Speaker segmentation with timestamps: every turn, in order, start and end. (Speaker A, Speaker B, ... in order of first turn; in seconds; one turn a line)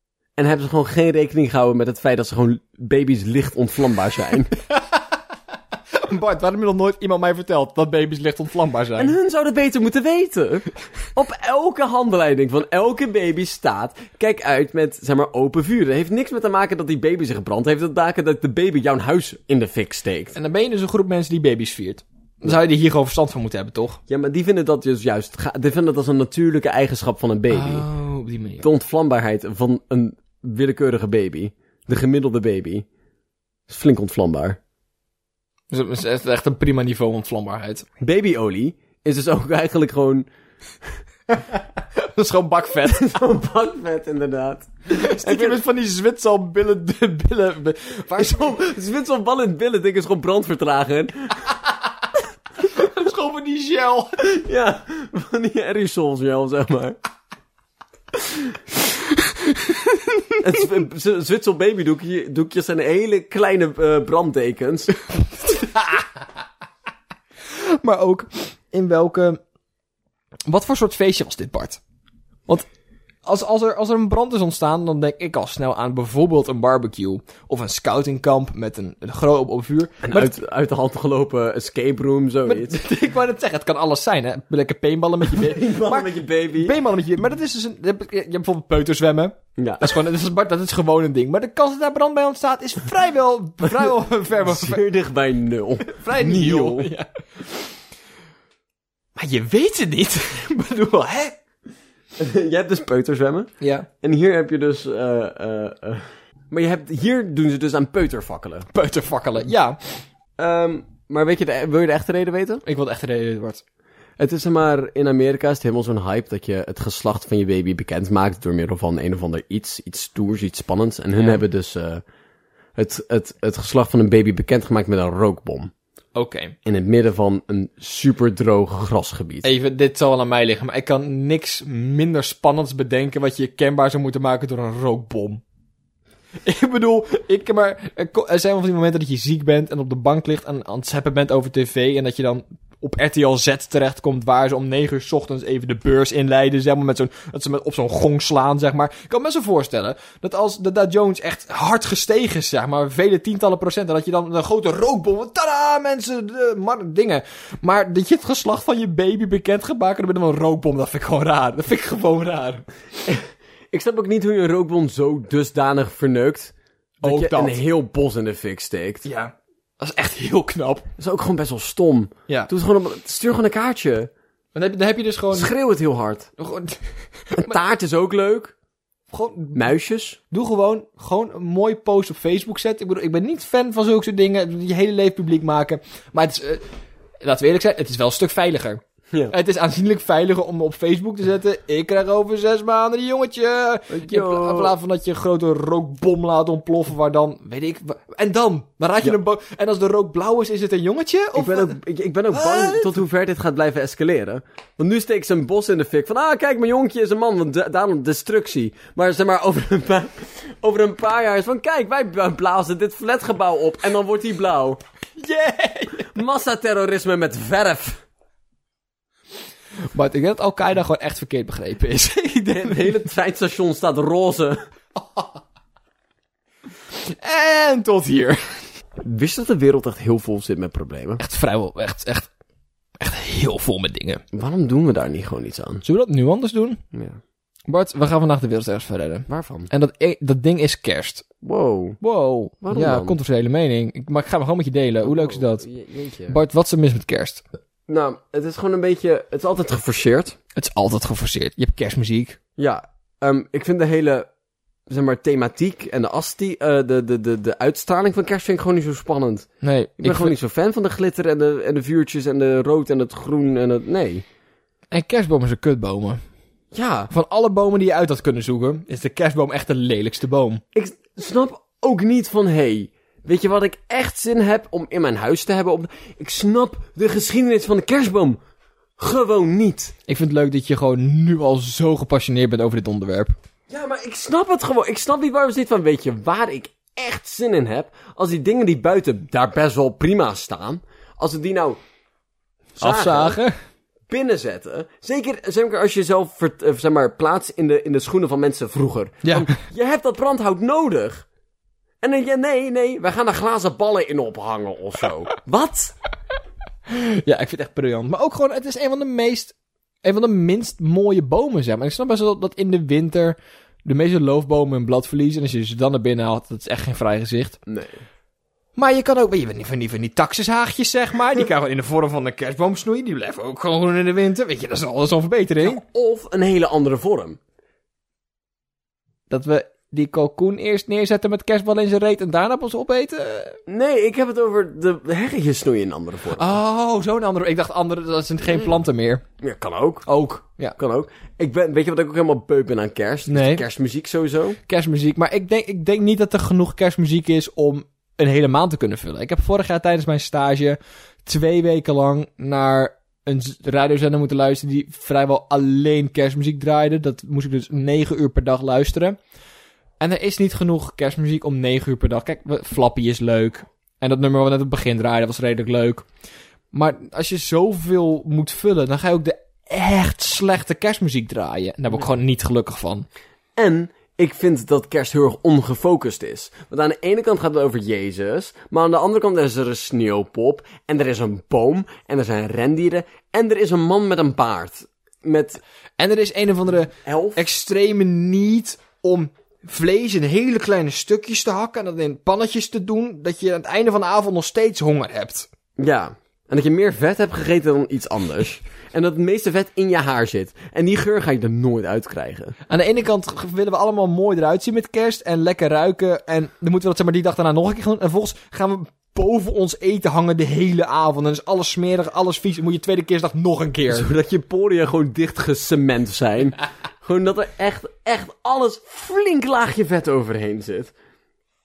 Speaker A: 0.4-4.5
Speaker B: 4.7-5.0
Speaker B: 5.9-9.1
Speaker A: 9.0-20.4
Speaker B: 20.4-24.0
Speaker A: 24.1-27.9
Speaker B: 27.5-28.6
Speaker A: 28.6-32.9
Speaker A: 33.7-34.6
Speaker B: 35.7-37.9
Speaker A: 38.0-40.3
Speaker B: 41.3-43.2
Speaker A: 42.8-45.6
Speaker B: 44.9-48.6
Speaker A: 48.2-51.5
Speaker B: 52.6-54.3
Speaker A: 54.2-57.0
Speaker B: 59.1-60.4
Speaker A: 60.4-65.0
Speaker B: 65.4-66.0
Speaker B: 67.5-69.4
Speaker B: 70.5-71.8
Speaker B: 73.3-80.3
Speaker A: 80.0-82.8
Speaker B: 82.5-94.8
Speaker A: 85.3-86.8
Speaker A: 89.6-90.0
Speaker A: 94.4-96.9
Speaker B: 95.8-97.1
Speaker B: 99.2-101.4
Speaker A: 102.2-108.7
Speaker B: 103.6-103.9
Speaker B: 108.7-109.8
Speaker A: 110.4-112.6
Speaker B: 112.7-113.6
Speaker A: 114.2-122.0
Speaker A: 122.8-125.7
Speaker B: 126.2-126.5
Speaker A: 126.7-129.5
Speaker B: 129.4-135.4
Speaker B: 136.4-162.7
Speaker A: 163.1-169.1
Speaker B: 167.0-167.6
Speaker B: 169.1-170.9
Speaker A: 171.0-174.1
Speaker B: 174.6-175.5
Speaker A: 175.3-176.3
Speaker B: 176.4-177.6
Speaker A: 177.3-178.6
Speaker B: 179.1-179.7
Speaker A: 179.5-180.2
Speaker B: 180.3-186.6
Speaker B: 187.2-201.8
Speaker A: 193.9-194.8
Speaker A: 201.3-214.8
Speaker B: 202.3-202.9
Speaker B: 215.2-216.1
Speaker A: 216.1-218.0
Speaker B: 219.9-223.0
Speaker A: 222.5-224.6
Speaker B: 225.0-225.3
Speaker B: 227.0-228.6
Speaker A: 229.0-231.2
Speaker B: 231.2-232.3
Speaker B: 233.0-234.2
Speaker A: 234.3-235.8
Speaker B: 235.8-236.8
Speaker A: 236.9-237.2
Speaker B: 237.7-241.3
Speaker A: 239.3-239.7
Speaker A: 241.4-242.0
Speaker B: 242.0-245.7
Speaker A: 242.6-243.2
Speaker A: 245.0-246.4
Speaker B: 246.3-247.4
Speaker A: 247.9-250.4
Speaker B: 250.6-252.4
Speaker A: 252.6-254.3
Speaker A: 254.9-259.5
Speaker B: 259.6-260.4
Speaker A: 260.0-264.3
Speaker B: 264.9-266.2
Speaker A: 266.7-267.1
Speaker B: 267.1-270.6
Speaker A: 270.7-278.4
Speaker A: 279.0-279.9
Speaker B: 280.1-283.4
Speaker A: 283.7-291.8
Speaker A: 292.8-293.4
Speaker B: 292.8-293.5
Speaker A: 294.1-301.3
Speaker B: 299.2-299.6
Speaker A: 302.0-305.9
Speaker B: 306.9-317.6
Speaker A: 317.7-318.0
Speaker B: 318.8-325.8
Speaker A: 325.6-327.4
Speaker B: 329.3-333.6
Speaker A: 333.7-336.6
Speaker B: 336.4-339.2
Speaker A: 339.4-340.2
Speaker B: 340.1-340.8
Speaker A: 340.8-344.6
Speaker B: 343.3-343.6
Speaker B: 344.7-359.2
Speaker B: 360.0-366.1
Speaker B: 366.7-373.1
Speaker A: 373.6-385.6
Speaker B: 386.0-395.5
Speaker A: 387.1-387.4
Speaker A: 395.8-402.6
Speaker B: 402.7-414.1
Speaker A: 413.9-420.9